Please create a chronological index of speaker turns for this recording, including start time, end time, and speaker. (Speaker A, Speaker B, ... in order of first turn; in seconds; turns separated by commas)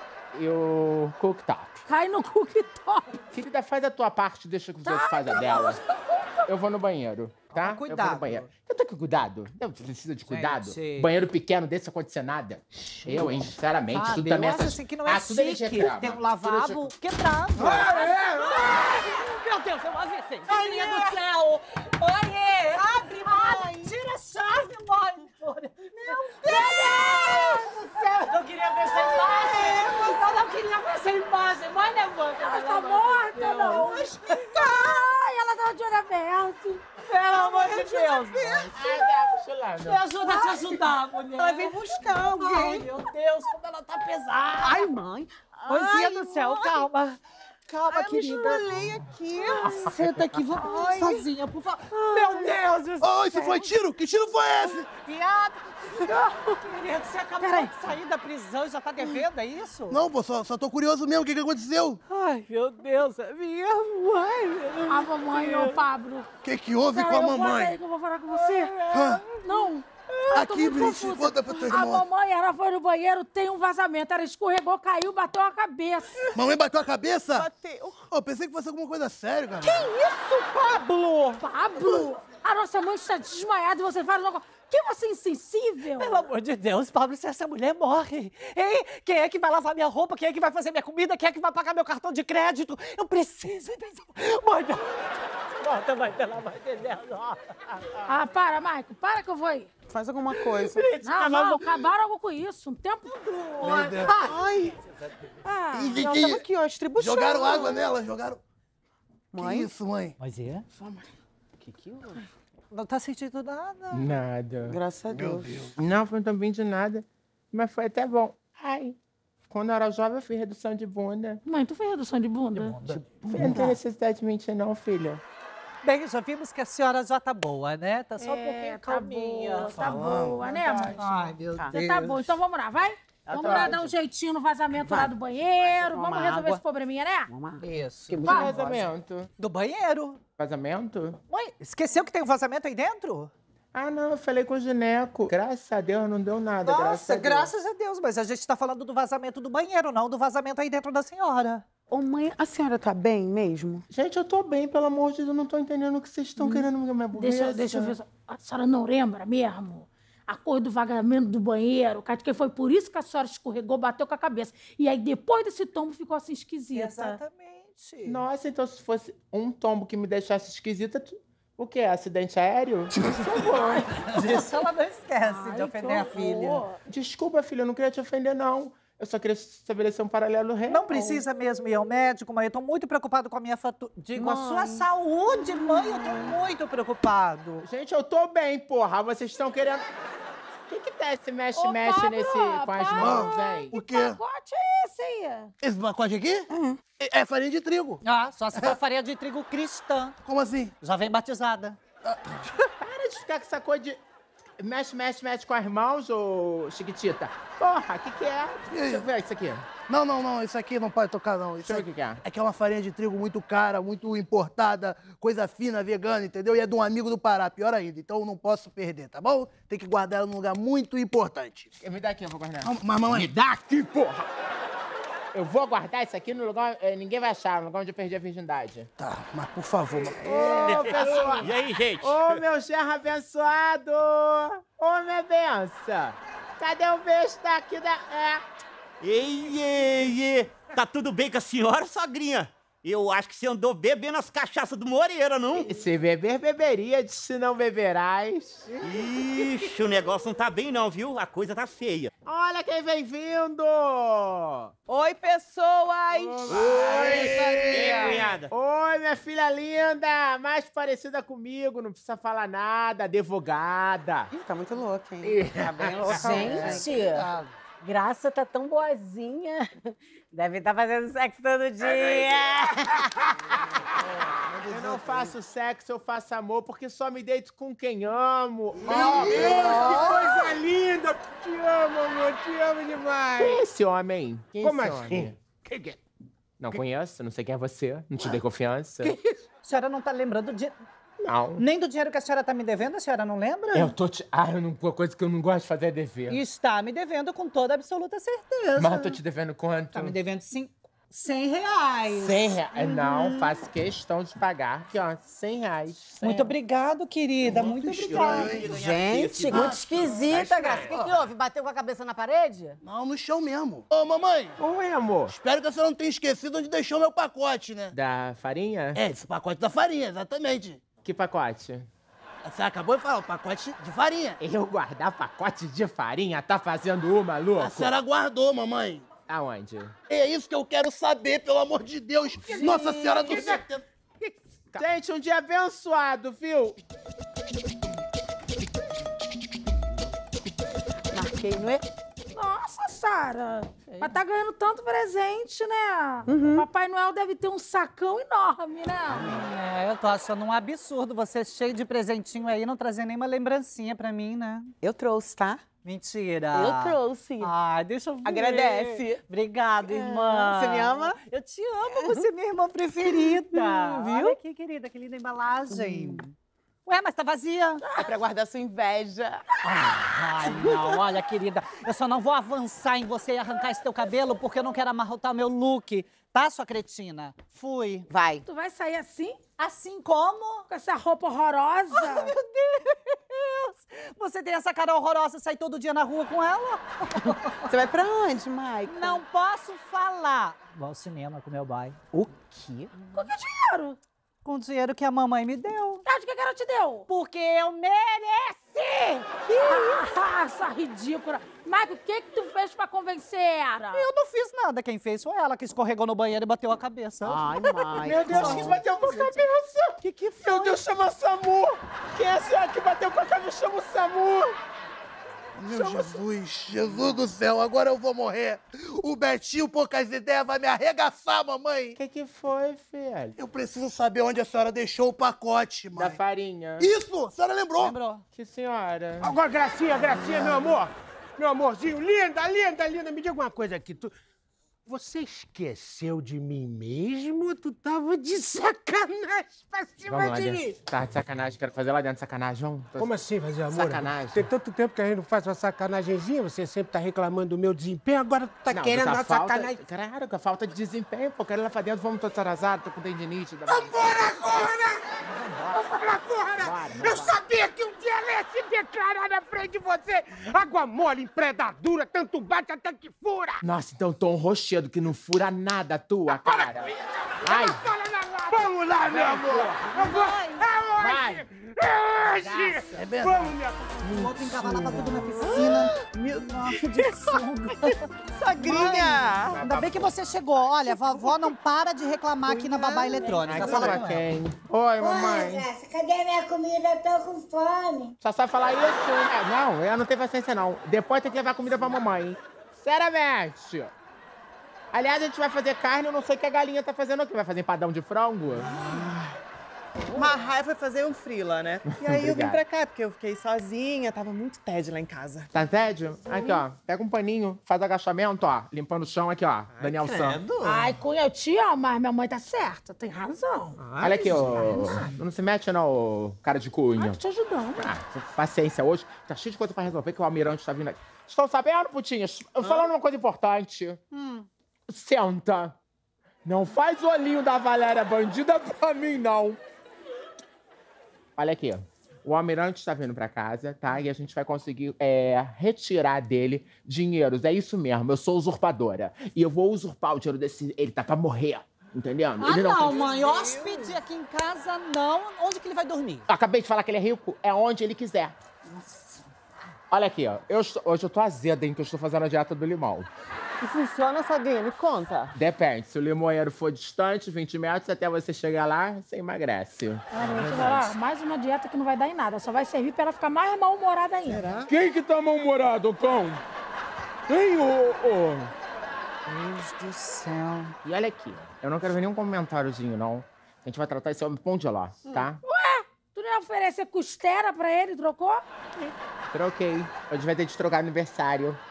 Speaker A: 0.3-1.8, Speaker B: 1.9-3.2, Speaker A: 3.3-5.8, Speaker B: 4.8-6.5, Speaker A: 6.5-16.9, Speaker C: 7.5-8.5, Speaker C: 10.3-11.1, Speaker C: 12.9-34.9, Speaker A: 17.6-17.9, Speaker D: 20.4-21.3, Speaker B: 26.5-27.7, Speaker D: 28.9-30.1, Speaker B: 32.4-36.9, Speaker C: 37.1-39.1, Speaker E: 37.6-38.1, Speaker D: 37.7-38.0, Speaker A: 38.7-40.1, Speaker C: 39.8-44.9, Speaker E: 40.2-40.5, Speaker D: 40.3-40.8, Speaker E: 41.4-42.9, Speaker E: 44.6-46.9, Speaker C: 45.7-48.7, Speaker E: 47.8-49.9, Speaker C: 49.5-53.8, Speaker E: 50.6-51.3, Speaker E: 51.9-52.5, Speaker F: 53.0-54.9, Speaker C: 54.6-60.0, Speaker B: 57.4-57.7, Speaker F: 59.9-62.0, Speaker C: 62.1-65.8, Speaker B: 64.9-66.3, Speaker F: 66.4-67.8, Speaker B: 66.9-68.8, Speaker C: 68.3-69.7, Speaker F: 68.9-69.2, Speaker B: 69.4-76.3, Speaker F: 70.3-72.0, Speaker F: 76.3-77.5, Speaker E: 77.3-78.1, Speaker F: 78.1-79.9, Speaker C: 79.6-81.4, Speaker B: 81.4-86.3, Speaker C: 86.0-97.8, Speaker B: 98.0-99.7, Speaker E: 99.9-101.1, Speaker C: 100.3-101.6, Speaker B: 101.0-103.8, Speaker F: 103.6-104.3, Speaker C: 103.6-104.3, Speaker E: 103.9-104.8, Speaker B: 105.5-106.0, Speaker F: 105.7-106.5, Speaker E: 105.9-107.9, Speaker F: 107.0-108.4, Speaker E: 109.3-109.7, Speaker F: 109.4-110.2, Speaker C: 110.2-110.7, Speaker E: 111.6-112.1, Speaker C: 112.7-114.1, Speaker A: 113.9-114.8, Speaker E: 114.7-115.7, Speaker F: 115.1-115.8, Speaker A: 115.8-119.0, Speaker A: 119.5-121.4, Speaker B: 121.5-122.8, Speaker C: 122.6-123.2, Speaker E: 123.3-123.8, Speaker A: 123.3-125.2, Speaker C: 125.8-132.2, Speaker B: 128.2-131.0, Speaker F: 129.8-130.4, Speaker A: 130.5-130.9, Speaker E: 131.5-132.0, Speaker B: 131.7-137.3, Speaker E: 133.3-133.9, Speaker E: 134.8-136.6, Speaker E: 137.3-138.8, Speaker C: 137.6-138.7, Speaker A: 138.2-139.3, Speaker C: 139.4-140.2, Speaker A: 140.4-141.2, Speaker C: 141.3-143.3, Speaker A: 143.7-147.5, Speaker C: 146.6-151.7, Speaker E: 151.9-153.8, Speaker A: 153.9-158.0, Speaker B: 157.2-167.2, Speaker C: 166.7-168.2, Speaker A: 168.1-174.3, Speaker C: 173.3-176.7, Speaker B: 173.4-173.8, Speaker B: 175.2-176.8, Speaker A: 176.8-181.2, Speaker C: 180.7-187.7, Speaker E: 184.2-184.8, Speaker E: 185.5-186.4, Speaker A: 187.6-189.8, Speaker A: 190.7-193.7, Speaker B: 191.6-195.5, Speaker F: 193.0-194.2, Speaker F: 195.6-198.0, Speaker E: 196.5-196.8, Speaker C: 198.0-200.2, Speaker F: 200.2-200.7, Speaker C: 200.8-201.8, Speaker F: 202.0-202.4, Speaker A: 202.8-204.0, Speaker A: 204.6-209.7, Speaker F: 208.7-209.0, Speaker F: 209.9-221.7, Speaker A: 211.6-212.2, Speaker A: 221.8-224.3, Speaker F: 222.6-223.3, Speaker A: 225.3-228.9, Speaker F: 229.0-231.5, Speaker A: 230.2-238.4, Speaker G: 230.6-232.4, Speaker G: 239.0-245.7, Speaker A: 245.5-248.7, Speaker G: 248.8-252.1, Speaker A: 252.2-254.7, Speaker E: 254.9-256.6, Speaker A: 256.1-264.3, Speaker F: 256.5-258.3, Speaker G: 256.5-258.5, Speaker E: 264.3-266.9, Speaker A: 265.2-266.7, Speaker D: 266.1-267.3, Speaker F: 266.1-267.5, Speaker D: 267.8-273.1, Speaker F: 274.2-275.4, Speaker A: 274.7-280.3, Speaker F: 278.8-280.3, Speaker H: 278.9-283.6, Speaker A: 283.4-285.3, Speaker H: 284.6-286.0, Speaker A: 286.6-289.2, Speaker C: 289.6-290.8, Speaker A: 291.2-291.6, Speaker C: 291.6-293.9, Speaker A: 293.7-296.4, Speaker C: 296.3-299.2, Speaker A: 298.8-300.2, Speaker C: 299.9-303.6, Speaker A: 302.1-306.5, Speaker C: 306.2-308.6, Speaker G: 307.5-309.9, Speaker F: 307.7-308.7, Speaker E: 308.7-311.3, Speaker D: 308.9-312.8, Speaker F: 312.8-314.6, Speaker A: 314.6-315.3, Speaker F: 315.3-317.9, Speaker A: 317.9-319.0, Speaker F: 318.9-320.8, Speaker A: 321.0-321.9, Speaker F: 322.4-324.4, Speaker A: 324.4-327.9, Speaker F: 327.6-329.1, Speaker A: 329.3-330.0, Speaker F: 330.1-333.8, Speaker C: 332.6-333.5, Speaker E: 332.6-333.5, Speaker A: 334.7-336.8, Speaker E: 341.1-341.9, Speaker B: 342.3-349.3, Speaker E: 343.9-344.1, Speaker E: 346.2-346.7, Speaker C: 349.2-354.7, Speaker E: 354.8-355.7, Speaker C: 355.8-366.3, Speaker E: 356.5-357.5, Speaker E: 358.2-359.2, Speaker E: 359.8-361.2, Speaker E: 361.9-362.2, Speaker E: 363.1-364.4, Speaker E: 365.7-366.2, Speaker C: 366.9-367.9, Speaker E: 367.9-369.5, Speaker C: 369.6-378.1, Speaker E: 370.4-371.0, Speaker E: 378.1-378.4, Speaker B: 378.4-379.4, Speaker C: 379.6-380.6, Speaker B: 380.7-382.3, Speaker C: 381.9-387.7, Speaker E: 387.7-389.2, Speaker C: 388.9-392.0, Speaker E: 392.1-392.9, Speaker B: 393.0-394.0, Speaker C: 394.4-396.0, Speaker B: 396.0-397.1, Speaker C: 397.1-400.0, Speaker B: 399.5-404.1, Speaker C: 403.9-409.4, Speaker E: 407.2-408.8, Speaker A: 408.0-414.6, Speaker E: 410.0-410.8, Speaker F: 415.5-422.0, Speaker A: 415.8-416.1, Speaker A: 422.0-423.4, Speaker F: 423.4-426.2, Speaker A: 426.0-426.9, Speaker F: 426.8-428.0, Speaker C: 427.8-428.2, Speaker A: 428.3-429.4, Speaker H: 429.2-434.1, Speaker H: 434.9-440.8, Speaker A: 440.1-443.1, Speaker H: 443.0-449.8, Speaker A: 443.7-444.5, Speaker A: 448.7-454.2, Speaker H: 453.7-463.6, Speaker A: 456.6-457.4, Speaker A: 463.6-466.9, Speaker H: 466.3-466.9, Speaker A: 467.4-467.8, Speaker H: 467.4-473.9, Speaker F: 468.5-469.7, Speaker A: 469.1-470.0, Speaker A: 471.0-471.4, Speaker A: 472.4-472.8, Speaker F: 473.0-473.6, Speaker C: 474.0-484.2, Speaker A: 474.1-475.4, Speaker E: 475.0-477.3, Speaker E: 478.3-479.8, Speaker A: 479.7-479.9, Speaker E: 480.8-481.5, Speaker E: 482.4-484.1, Speaker A: 483.4-485.7, Speaker I: 485.0-488.1, Speaker A: 488.2-493.9, Speaker A: 494.9-498.8, Speaker E: 498.6-499.3, Speaker E: 500.0-505.5, Speaker A: 501.9-502.6, Speaker A: 505.5-510.4, Speaker E: 509.8-510.9, Speaker B: 510.6-514.6, Speaker E: 513.8-515.1, Speaker A: 514.0-517.2, Speaker B: 517.0-517.9, Speaker A: 517.8-524.0, Speaker E: 522.6-522.9, Speaker A: 524.9-525.8, Speaker A: 526.5-529.6, Speaker A: 531.4-543.0, Speaker C: 542.4-546.2, Speaker E: 542.6-544.0, Speaker A: 546.3-548.3, Speaker C: 548.7-549.0, Speaker A: 549.9-553.1, Speaker E: 553.6-555.4, Speaker A: 555.3-560.9, Speaker B: 560.1-564.5, Speaker E: 564.2-564.7, Speaker A: 564.7-566.4, Speaker A: 567.3-568.5, Speaker C: 569.3-570.8, Speaker A: 570.8-575.4, Speaker B: 575.4-578.4, Speaker A: 579.3-581.6